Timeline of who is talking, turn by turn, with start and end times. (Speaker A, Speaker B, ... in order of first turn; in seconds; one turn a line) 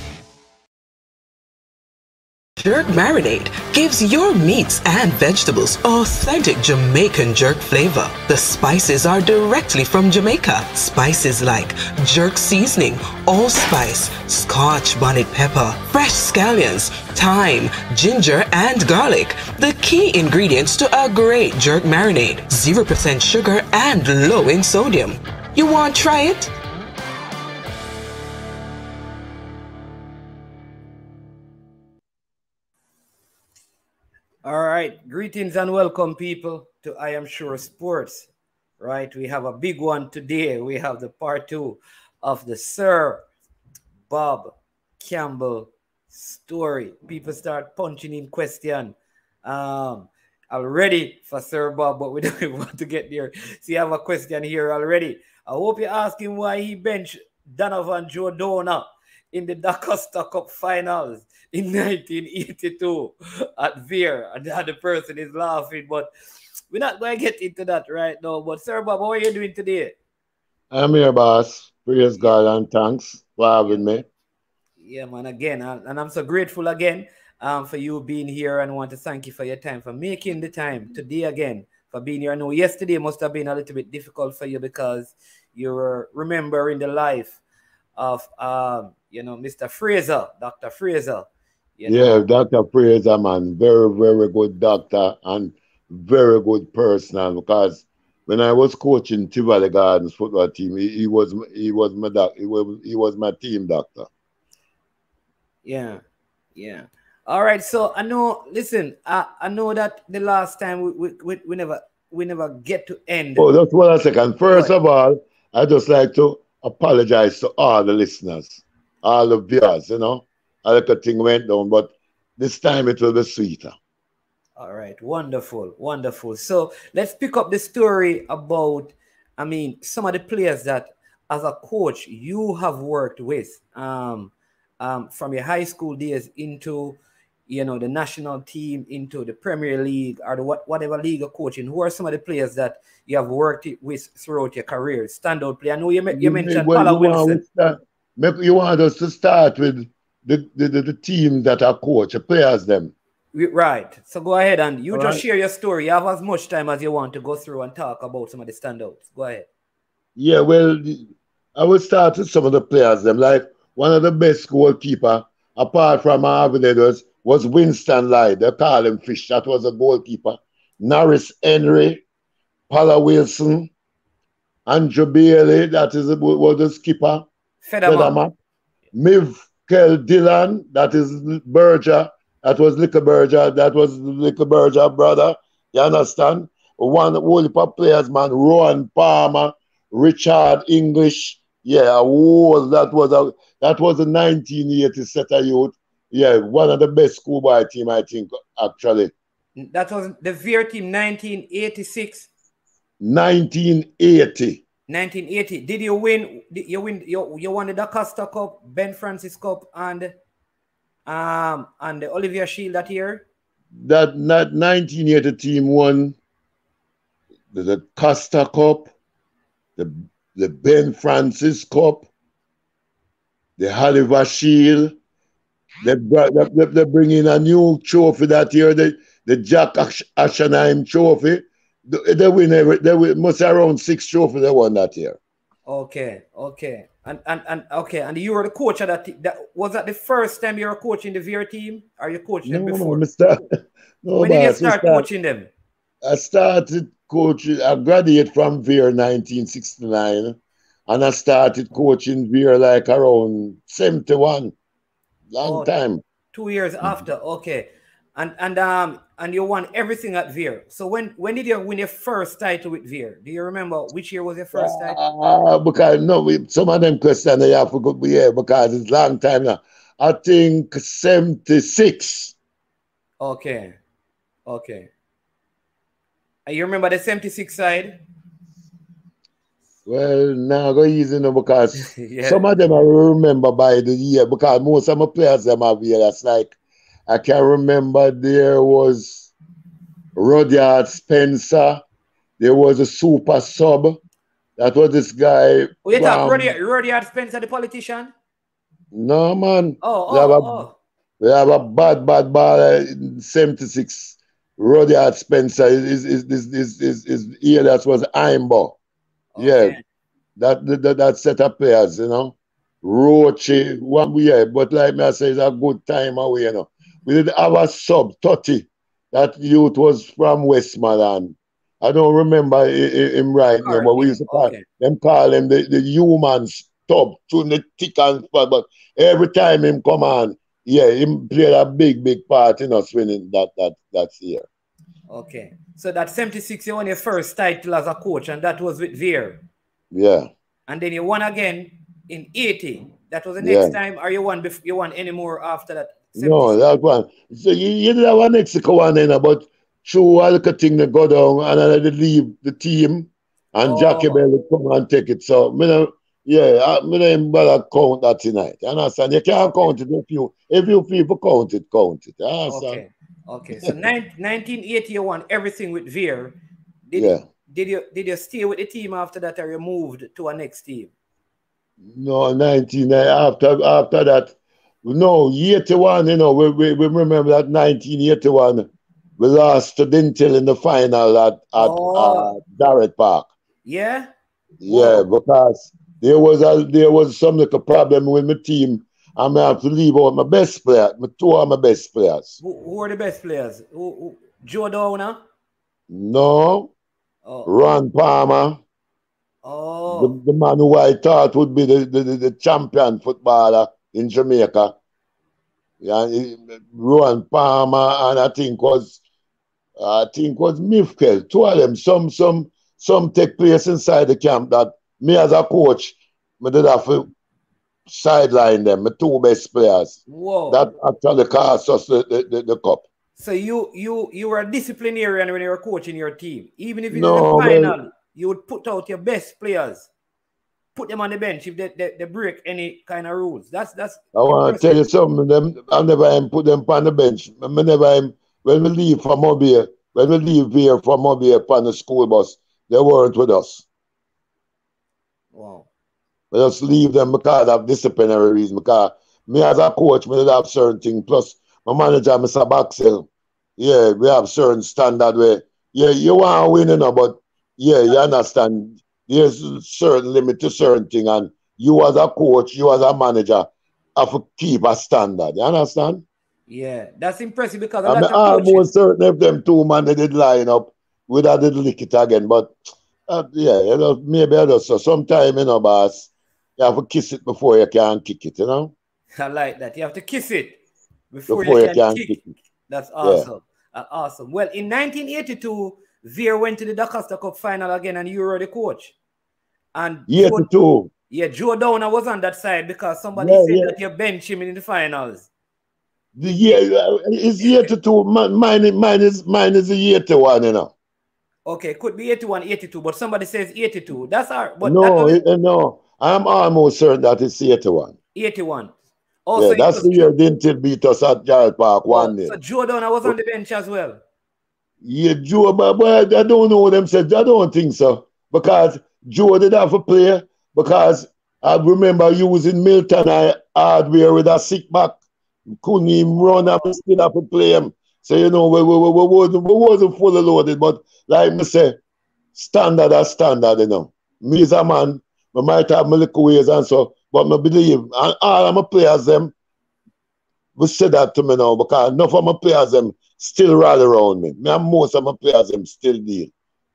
Speaker A: 2.6-26.5
Speaker B: 34.4-43.2
Speaker B: 44.1-66.1
Speaker B: 66.7-70.0
Speaker C: 70.7-74.0
Speaker B: 74.8-87.4
Speaker B: 88.0-92.3
Speaker C: 91.9-104.1
Speaker B: 105.6-106.0
Speaker B: 106.5-113.5
Speaker C: 113.3-123.7
Speaker B: 114.5-114.7
Speaker B: 124.6-147.4
Speaker C: 146.1-152.9
Speaker B: 153.3-159.5
Speaker C: 154.9-155.2
Speaker C: 160.2-172.0
Speaker C: 172.7-173.7
Speaker C: 174.7-177.3
Speaker B: 177.6-178.2
Speaker C: 177.8-178.3
Speaker C: 178.9-199.1
Speaker B: 199.6-202.3
Speaker C: 203.0-204.6
Speaker B: 204.9-210.1
Speaker B: 211.1-213.2
Speaker C: 213.7-216.2
Speaker C: 217.5-218.9
Speaker C: 219.8-222.1
Speaker C: 223.6-224.9
Speaker C: 225.8-235.2
Speaker B: 235.7-243.0
Speaker C: 242.4-243.5
Speaker C: 244.0-245.1
Speaker B: 244.1-245.5
Speaker C: 246.0-250.4
Speaker C: 250.9-254.5
Speaker C: 255.3-256.0
Speaker B: 255.4-255.7
Speaker B: 256.3-265.0
Speaker C: 264.5-272.3
Speaker B: 273.2-273.8
Speaker B: 274.4-274.9
Speaker B: 276.4-278.0
Speaker C: 279.9-289.3
Speaker B: 281.8-282.4
Speaker C: 290.1-291.8
Speaker C: 292.4-294.0
Speaker C: 294.6-296.5
Speaker B: 295.8-298.1
Speaker C: 298.9-300.6
Speaker B: 299.8-300.8
Speaker C: 301.2-308.8
Speaker B: 309.3-309.8
Speaker C: 309.4-309.8
Speaker C: 310.4-334.4
Speaker B: 323.6-324.6
Speaker B: 335.1-339.4
Speaker C: 339.9-340.3
Speaker B: 340.7-346.6
Speaker C: 343.4-343.8
Speaker C: 346.1-362.8
Speaker B: 353.6-354.2
Speaker B: 359.4-359.7
Speaker B: 362.5-366.4
Speaker B: 366.9-370.9
Speaker C: 366.9-367.2
Speaker C: 371.9-378.7
Speaker C: 379.2-383.3
Speaker B: 381.5-382.3
Speaker B: 383.6-384.1
Speaker C: 384.6-392.4
Speaker B: 384.7-385.0
Speaker B: 392.4-395.2
Speaker C: 395.9-396.7
Speaker B: 397.2-397.5
Speaker C: 397.4-398.6
Speaker B: 399.4-400.1
Speaker C: 399.9-404.7
Speaker C: 405.8-409.0
Speaker C: 409.8-417.1
Speaker C: 417.9-422.8
Speaker B: 420.1-420.6
Speaker B: 423.1-429.9
Speaker C: 426.9-427.8
Speaker B: 430.7-434.8
Speaker C: 434.1-443.6
Speaker B: 445.3-445.7
Speaker C: 446.3-466.0
Speaker B: 466.5-468.7
Speaker C: 467.8-472.6
Speaker C: 473.1-478.7
Speaker B: 479.2-480.6
Speaker B: 481.1-488.9
Speaker C: 481.3-482.3
Speaker C: 483.0-483.3
Speaker B: 489.7-490.5
Speaker C: 490.1-490.9
Speaker B: 491.1-495.3
Speaker C: 493.1-493.7
Speaker C: 496.1-500.7
Speaker B: 497.4-497.7
Speaker B: 501.4-505.2
Speaker C: 504.6-507.9
Speaker B: 508.1-508.7
Speaker B: 509.2-510.1
Speaker C: 509.3-512.4
Speaker B: 511.9-514.0
Speaker C: 514.8-525.0
Speaker C: 525.5-531.8
Speaker C: 532.3-539.3
Speaker C: 540.6-546.3